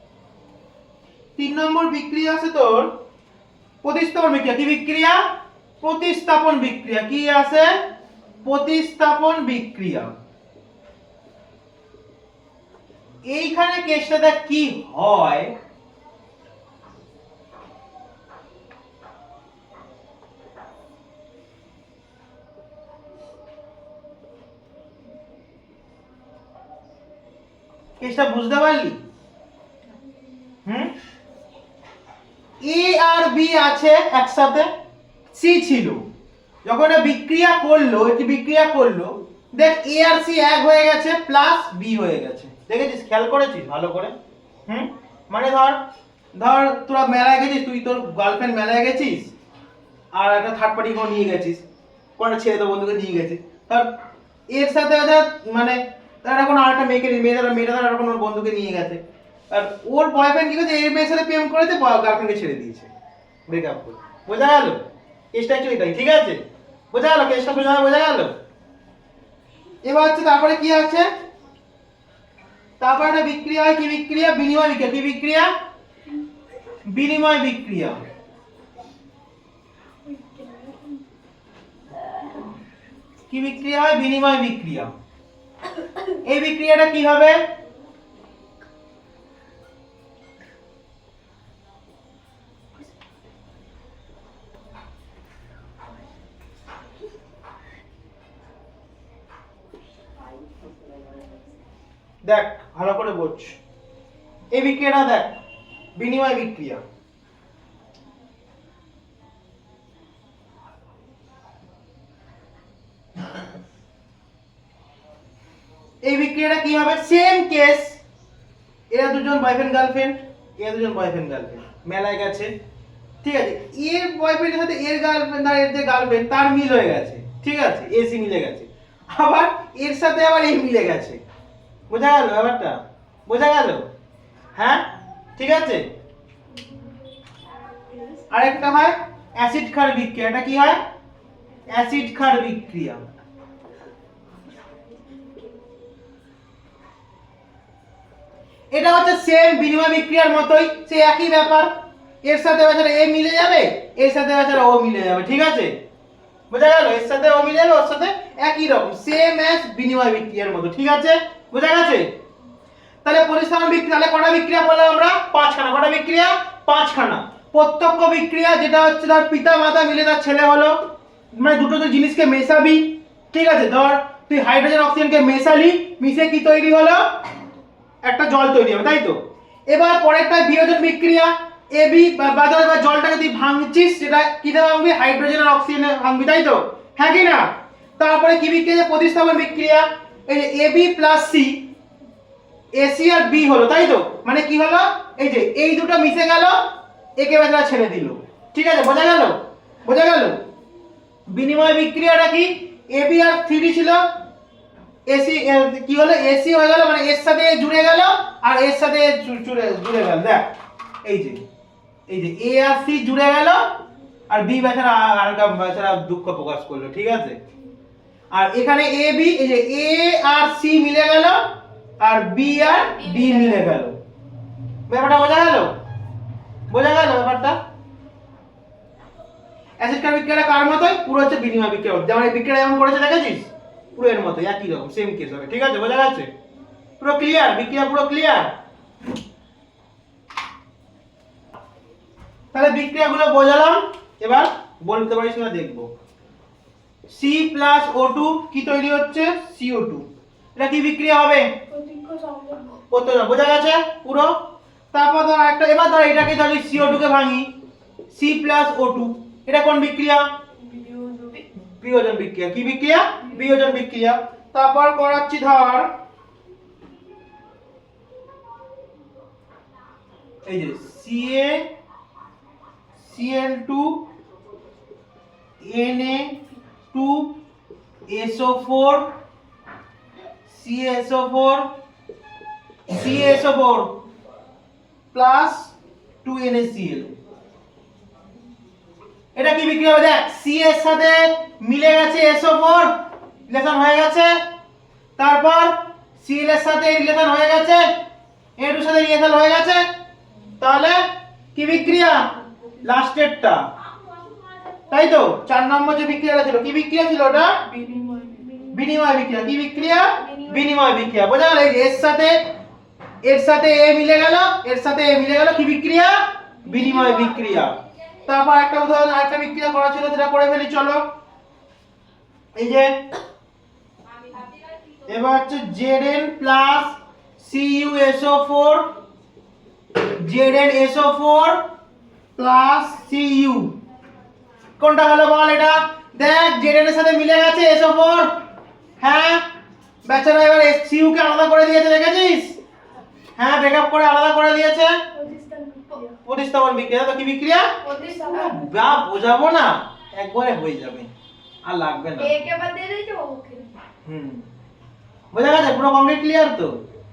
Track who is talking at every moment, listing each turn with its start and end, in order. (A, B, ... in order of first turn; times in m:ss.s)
0:01.4-0:02.9 A
0:03.8-0:05.2 A
0:05.8-0:07.8 A
0:08.4-0:10.1 A
0:13.2-0:15.6 A
0:28.0-0:29.0 A
0:30.6-0:30.9 A
0:32.6-0:34.7 A
0:35.3-0:36.1 A
0:36.6-0:44.2 A
0:44.7-0:45.8 A
0:46.4-0:49.3 A
0:50.1-0:51.6 A
0:52.2-0:53.9 A
0:54.5-1:02.9 A
1:03.5-1:04.8 A
1:05.3-1:08.4 A
1:09.8-1:11.1 A
1:12.8-1:15.5 A
1:16.8-1:18.0 A
1:20.1-1:21.0 B
1:23.3-1:24.9 A
1:26.1-1:27.4 A
1:41.0-1:41.2 B
1:42.2-1:43.6 A
1:44.5-1:45.4 A
1:46.0-1:46.8 A
1:56.0-1:58.0 A
1:58.9-2:02.5 A
2:03.2-2:11.2 A
2:11.9-2:13.9 A
2:14.6-2:15.9 A
2:18.3-2:20.8 A
2:21.7-2:23.0 A
2:28.7-2:35.8 A
2:36.5-2:42.1 A
2:43.0-2:57.2 A
2:58.0-3:11.7 A
3:12.7-3:20.4 A
3:21.3-3:24.1 A
3:25.1-3:30.5 A
3:31.0-3:31.4 A
3:32.1-3:33.8 A
3:34.3-3:37.4 A
3:38.3-3:44.0 A
3:44.9-3:45.8 A
3:46.7-3:47.6 A
3:49.8-3:56.3 A
3:57.0-3:58.5 A
4:02.5-4:05.9 A
4:07.1-4:11.5 A
4:11.7-4:12.8 B
4:12.9-4:14.4 A
4:14.9-4:17.5 A
4:18.1-4:20.3 A
4:20.6-4:21.5 B
4:21.5-4:25.9 A
4:30.4-4:31.7 A
4:33.0-4:34.0 A
4:35.6-4:37.3 A
4:38.1-4:39.1 A
4:40.4-4:41.7 A
4:42.9-4:44.0 A
4:45.1-4:45.7 A
4:46.2-4:47.2 A
4:49.4-4:52.9 A
4:53.5-4:54.4 A
4:55.2-4:58.0 A
4:58.6-4:59.9 A
5:00.6-5:03.7 A
5:04.9-5:07.7 A
5:07.7-5:08.7 B
5:08.7-5:12.5 A
5:13.2-5:21.1 A
5:22.6-5:23.0 A
5:25.1-5:28.9 A
5:30.0-5:31.6 A
5:32.4-5:33.7 A
5:34.8-5:38.3 A
5:39.0-5:39.4 A
5:40.0-5:42.6 A
5:43.4-5:45.0 A
5:45.1-5:46.1 B
5:46.2-5:51.1 A
5:47.8-5:48.6 B
5:51.6-5:52.5 A
5:52.2-5:53.7 B
5:54.0-5:54.5 A
5:55.3-5:56.8 A